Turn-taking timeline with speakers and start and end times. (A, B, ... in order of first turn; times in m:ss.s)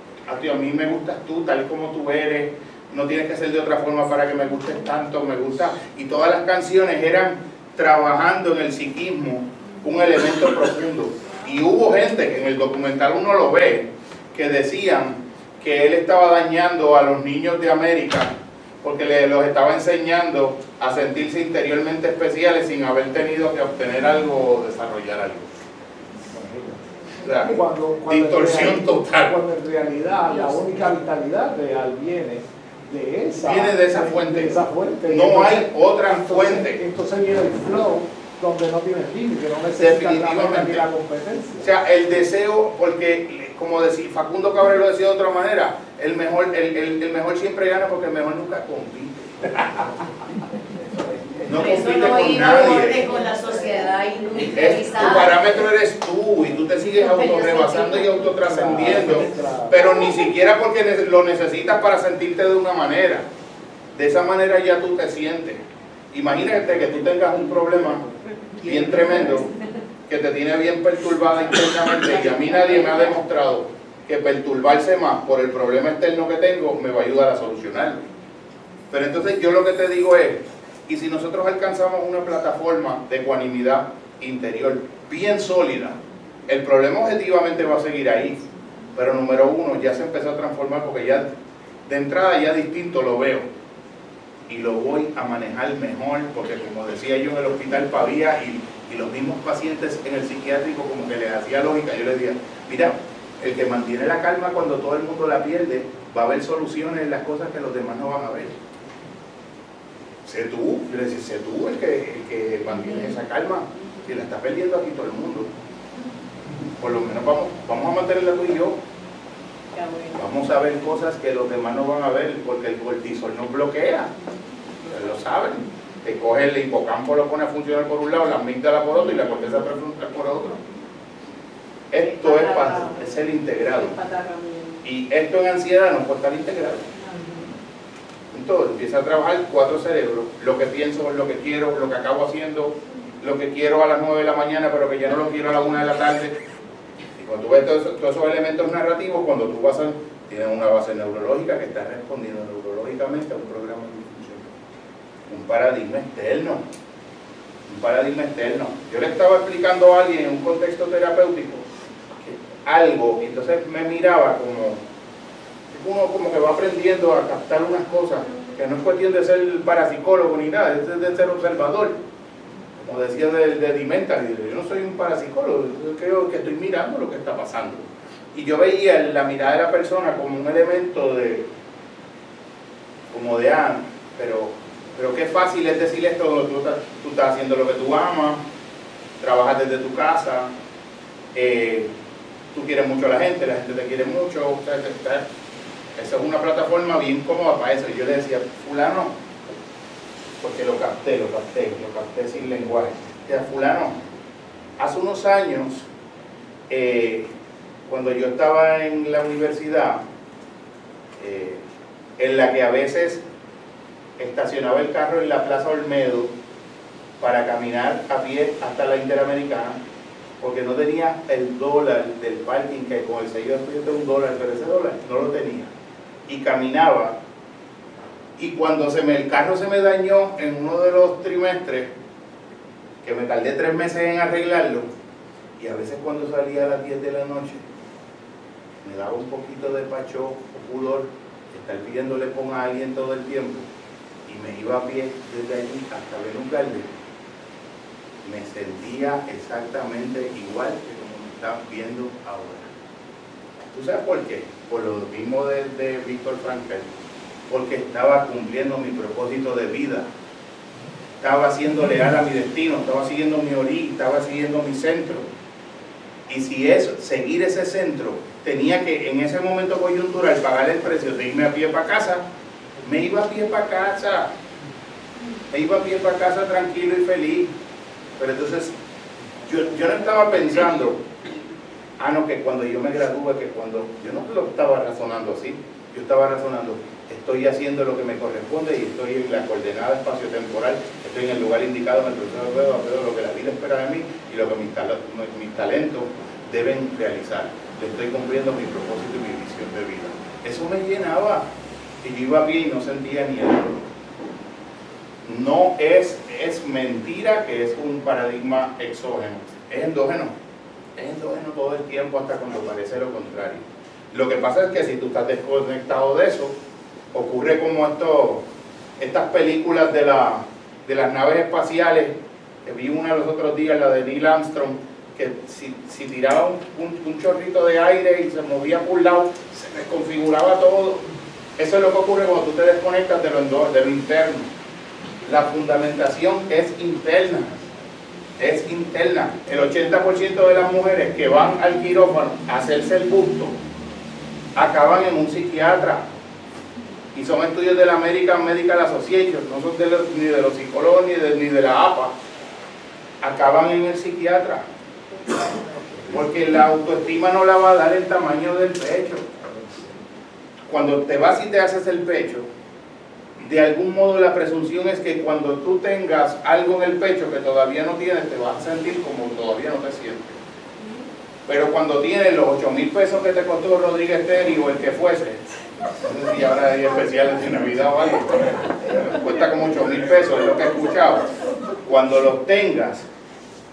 0:00.3-0:25.5 A
0:26.3-0:26.8 B
0:27.2-0:29.4 A
0:27.5-0:41.6 B
0:33.4-0:36.8 A
0:39.7-0:40.9 A
0:41.6-0:49.8 A
0:51.4-0:53.1 A
0:51.5-0:55.5 C
0:54.5-1:03.3 A
0:57.0-0:58.1 C
0:58.4-0:59.8 B
1:03.9-1:05.6 A
1:06.1-1:08.0 A
1:08.6-1:09.5 A
1:10.1-1:18.0 A
1:18.9-1:28.4 A
1:29.0-1:31.3 A
1:31.9-1:33.4 A
1:34.5-1:48.6 A
1:50.3-1:55.5 A
1:56.8-1:58.8 A
1:59.7-2:00.1 C
2:00.1-2:04.1 A
2:04.8-2:10.6 A
2:11.9-2:14.0 A
2:12.2-2:13.0 C
2:13.8-2:14.8 C
2:14.8-2:17.0 A
2:17.0-2:17.4 C
2:18.3-2:26.4 A
2:27.2-2:34.5 A
2:35.3-2:36.6 A
2:37.7-2:41.7 A
2:42.2-2:44.8 A
2:45.7-2:52.0 A
2:52.8-3:01.5 A
3:03.1-3:08.4 A
3:09.2-3:10.5 A
3:11.3-3:11.9 A
3:12.5-3:15.2 A
3:16.0-3:19.2 A
3:20.4-3:24.0 A
3:24.8-3:25.9 A
3:26.7-3:27.3 A
3:27.9-3:30.0 A
3:31.2-3:31.6 A
3:32.2-3:33.2 A
3:34.2-3:36.3 A
3:37.2-3:39.8 A
3:40.4-3:45.7 A
3:46.3-3:47.2 A
3:48.4-3:51.9 A
3:53.0-3:54.9 A
3:55.6-3:57.6 A
3:58.8-4:03.7 A
4:04.3-4:06.9 A
4:08.2-4:12.7 A
4:13.7-4:16.9 A
4:17.5-4:20.1 A
4:21.2-4:25.3 A
4:26.3-4:32.2 A
4:32.8-4:34.3 A
4:35.5-4:37.5 A
4:38.2-4:38.7 A
4:39.4-4:41.0 A
4:42.0-5:01.5 A
5:02.0-5:03.9 A
5:05.2-5:10.3 A
5:11.0-5:16.6 A
5:17.1-5:18.4 A
5:19.0-5:34.5 A
5:35.2-5:37.6 A
5:38.4-5:43.6 A
5:44.6-5:46.0 A
5:47.1-5:52.1 A
5:53.2-5:54.6 A
5:56.1-5:59.3 A
6:00.7-6:02.5 A
6:03.4-6:10.4 A
6:11.4-6:15.4 A
6:16.0-6:21.2 A
6:21.8-6:23.1 A